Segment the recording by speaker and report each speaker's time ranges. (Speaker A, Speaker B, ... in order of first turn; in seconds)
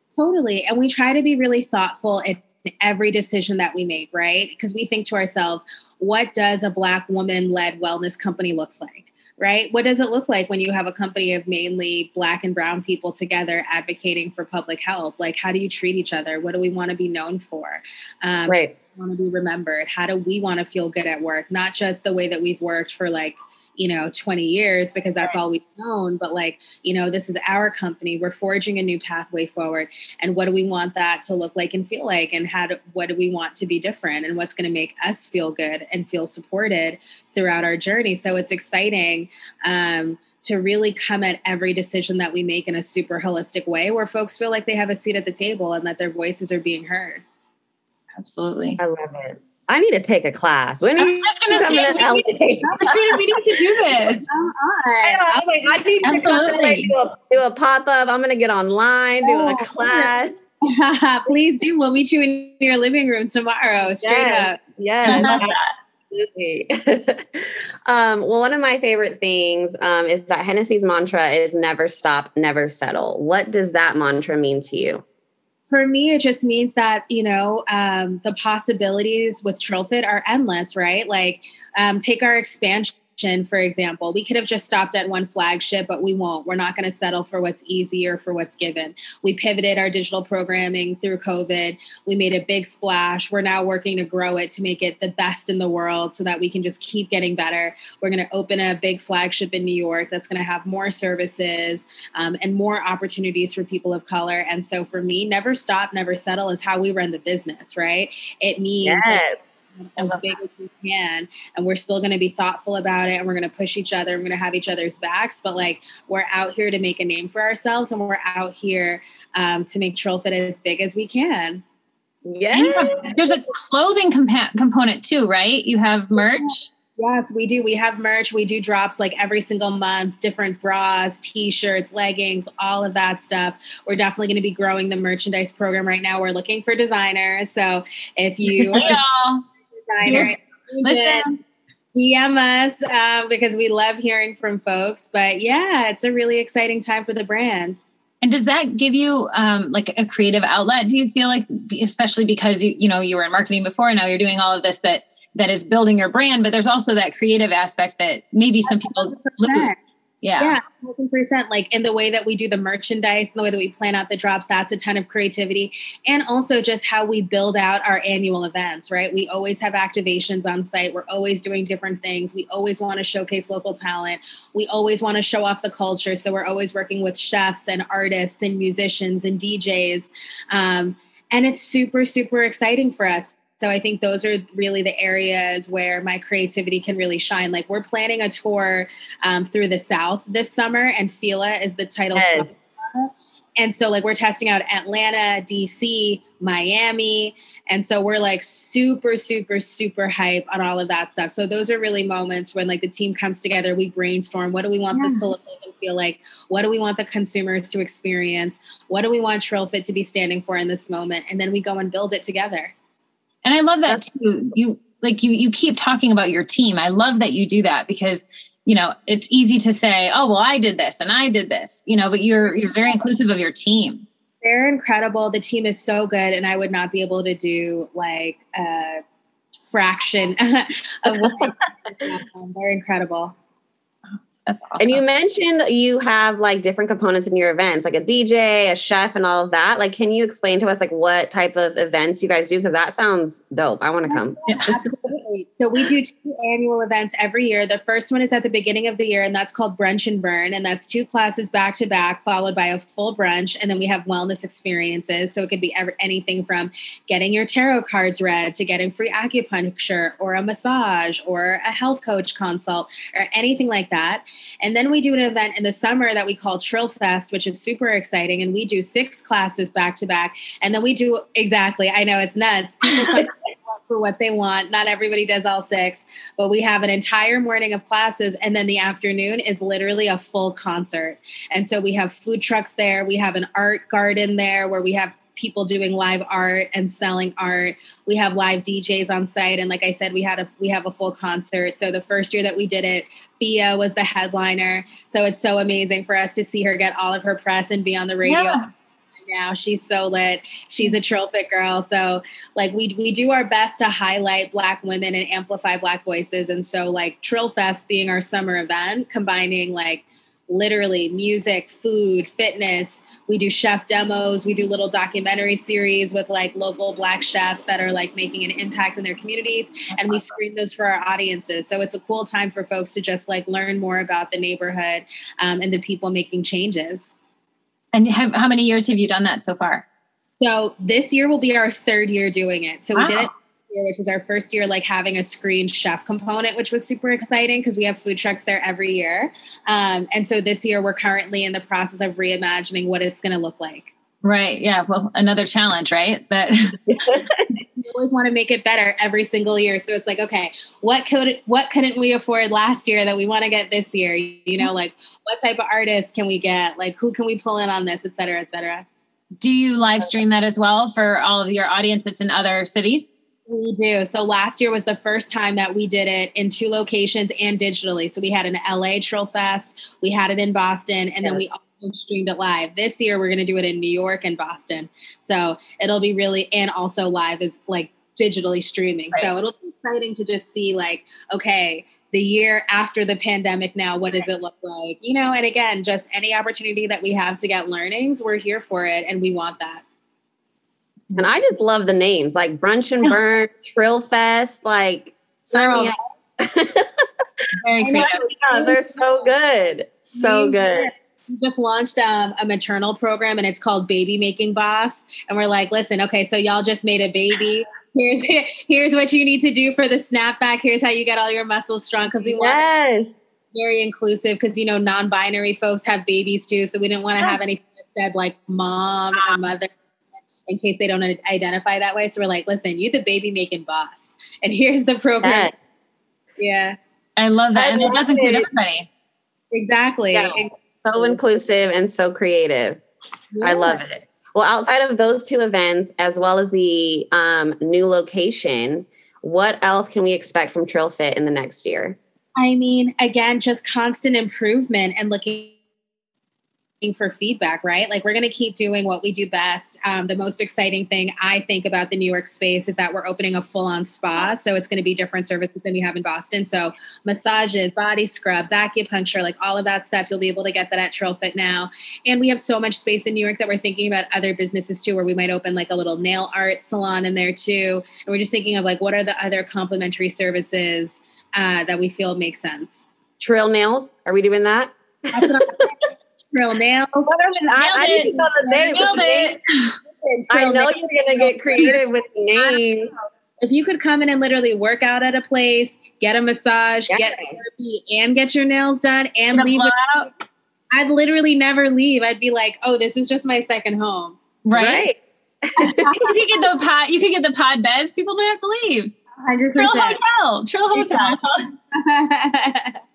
Speaker A: 0.2-47.2, 52.6-53.1, 54.3-56.1, 59.2-60.1, 60.7-65.5, 75.7-121.6, 126.3-139.0, 139.9-141.2, 141.9-147.8, 158.7-159.8, 160.4-212.7, 224.4-229.0, 229.6-233.3, 244.1-298.6, 299.2-327.1, 330.4-343.9, 347.8-358.9, 363.5-389.8, 395.5-396.0, 397.8-399.3, 400.2-412.7, 413.5-419.7, 420.5-425.5, 426.4-426.8, 429.5-431.2, 433.3-433.8, 442.4-445.6, 446.8-472.9, 475.1-479.1, 480.0-481.8, 483.4-489.7, 490.7-494.2, 495.6-496.4, 499.2-500.0, 500.7-502.8
Speaker B: 18.5-18.8, 48.8-53.2, 55.0-60.4, 64.0-65.5, 66.1-75.0, 108.8-110.3, 122.2-123.2, 192.1-192.5, 231.2-231.5, 234.8-244.4, 346.9-347.5, 391.2-397.4, 397.9-400.9, 412.2-413.2, 425.2-425.6, 427.6-428.5, 430.1-432.8, 433.4-442.0, 473.2-475.7, 477.1-479.4, 480.3-482.9, 486.9-487.4, 494.5-496.0
Speaker C: 48.2-48.8, 51.0-52.3, 52.8-54.3, 56.0-56.9, 65.0-65.7, 122.5-126.7, 138.7-139.4, 140.0-140.3, 140.8-141.4, 148.2-160.6, 204.9-205.3, 213.4-224.1, 234.5-235.0, 244.5-244.7, 298.2-298.7, 319.9-320.2, 327.9-329.9, 333.0-333.3, 344.2-346.8, 359.4-363.1, 397.6-398.2, 427.2-428.9, 477.6-479.8, 489.3-490.1, 494.4-494.9, 496.0-499.0, 499.6-501.4